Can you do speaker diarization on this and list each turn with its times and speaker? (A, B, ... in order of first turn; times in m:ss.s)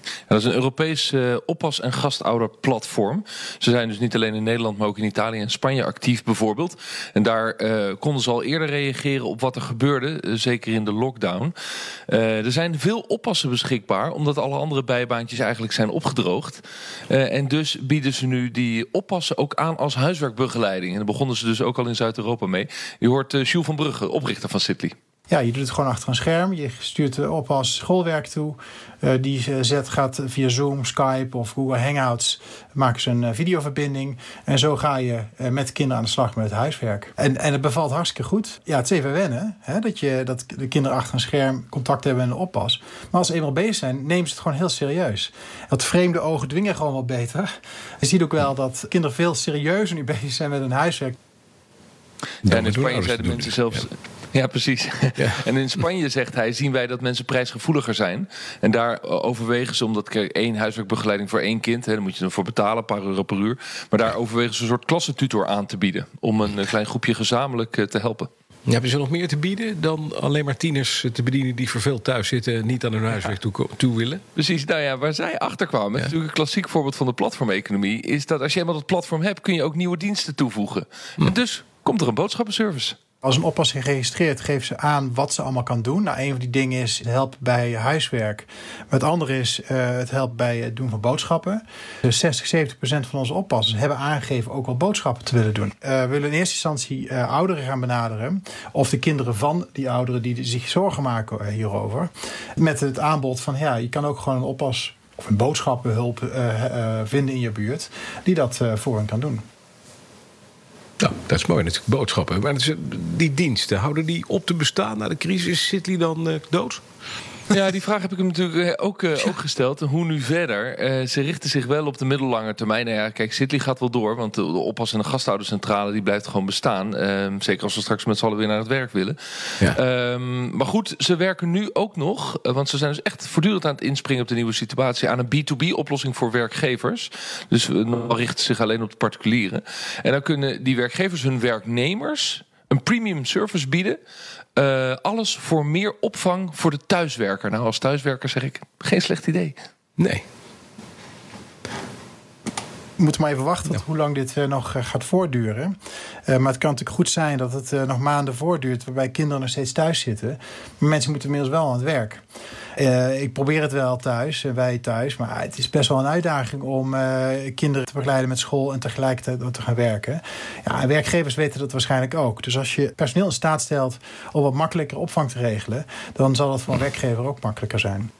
0:00.3-0:11.5 A
0:12.1-0:24.9 A
0:25.3-0:47.5 B
0:48.0-0:51.1 B
0:52.4-1:08.3 A
0:52.4-0:53.8 C
1:08.7-1:14.2 C
1:14.4-1:23.0 A
1:23.2-1:49.4 B
1:51.0-1:56.8 C
1:57.5-2:24.0 A
2:24.6-2:29.6 A
2:30.0-2:30.2 C
2:33.0-2:35.7 B
2:36.3-2:42.2 B
2:42.8-2:58.1 B